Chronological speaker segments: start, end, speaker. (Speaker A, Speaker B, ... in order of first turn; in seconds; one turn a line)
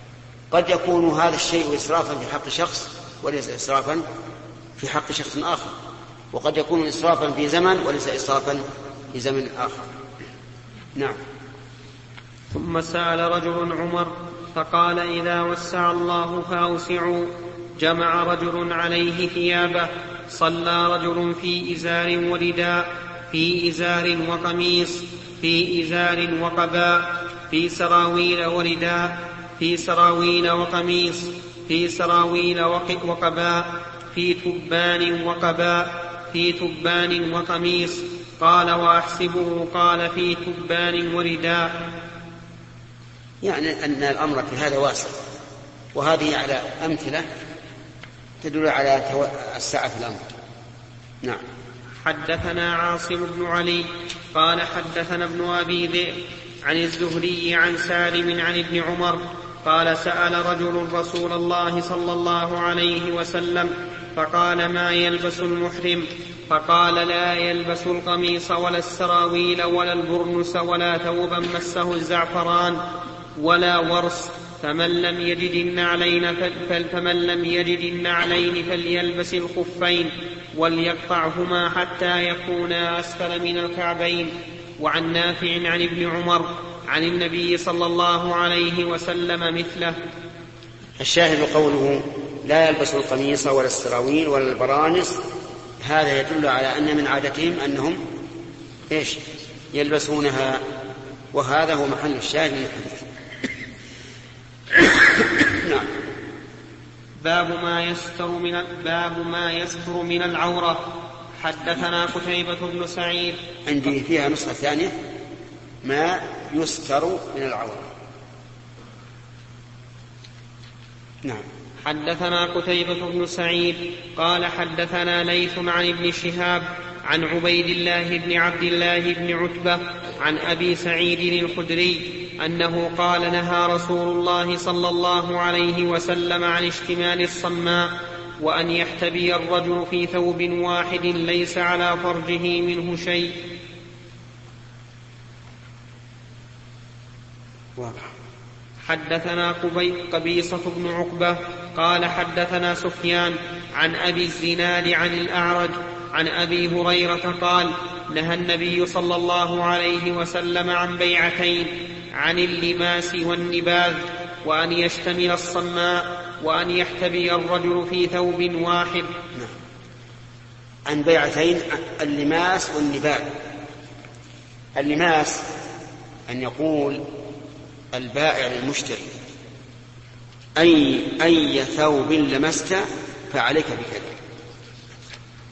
Speaker A: 0.5-4.0
Speaker A: 4.8-5.8
Speaker A: 6.3-9.9
Speaker B: 12.5-41.7
Speaker A: 43.4-45.2
Speaker A: 45.9-47.3
Speaker A: 48.4-50.2
Speaker B: 52.0-72.8
Speaker B: 73.4-90.0
Speaker A: 91.0-95.2
Speaker A: 95.8-98.0
Speaker A: 98.9-99.2
Speaker A: 99.7-100.6
Speaker A: 101.3-103.1
Speaker A: 104.7-105.9
Speaker B: 107.2-113.4
Speaker A: 113.7-114.9
Speaker A: 115.8-117.9
Speaker B: 121.8-143.3
Speaker A: 147.8-148.1
Speaker B: 148.8-169.1
Speaker A: 170.9-173.4
Speaker A: 174.8-175.5
Speaker A: 176.3-177.0
Speaker A: 177.9-179.2
Speaker A: 180.6-184.1